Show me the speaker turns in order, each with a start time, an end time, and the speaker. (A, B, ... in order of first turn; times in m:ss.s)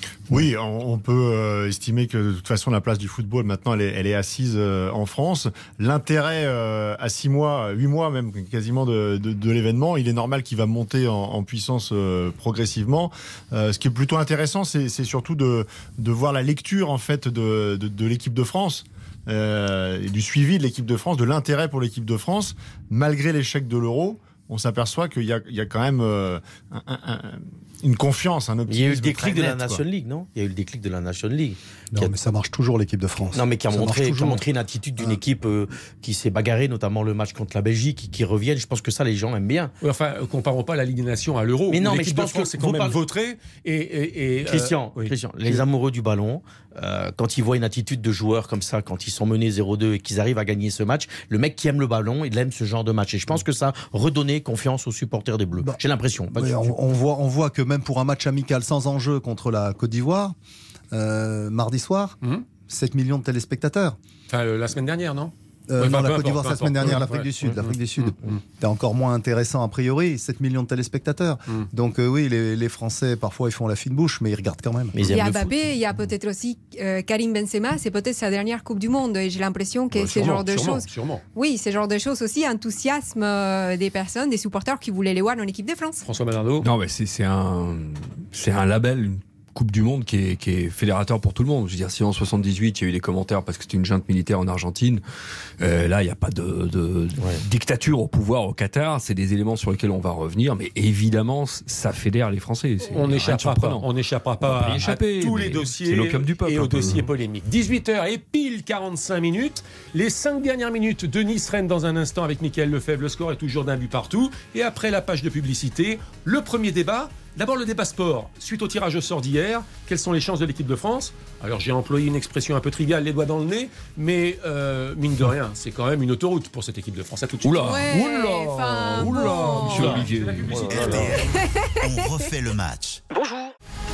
0:00.3-0:29.8 A
0:28.7-0:32.1 B
0:31.9-0:34.4 C
0:33.3-0:39.7 B
0:39.8-0:45.1 D
0:41.7-0:43.0 B
0:44.5-0:56.7 B
0:55.6-1:00.4 C
1:00.9-1:02.2 C
1:02.7-1:04.0 C
1:04.3-1:07.3 D
1:05.7-1:15.1 C
1:07.4-1:07.7 B
1:14.9-1:15.6 B
1:15.1-1:26.0 E
1:19.9-1:21.2 D
1:26.0-1:26.7 D
1:26.6-1:35.0 F
1:35.6-1:43.9 F
1:42.8-2:07.9 D
1:44.4-1:47.1 F
2:07.4-2:11.2 F
2:07.6-2:10.0 E
2:09.3-2:11.2 D
2:10.8-2:13.0 G
2:11.2-2:12.3 E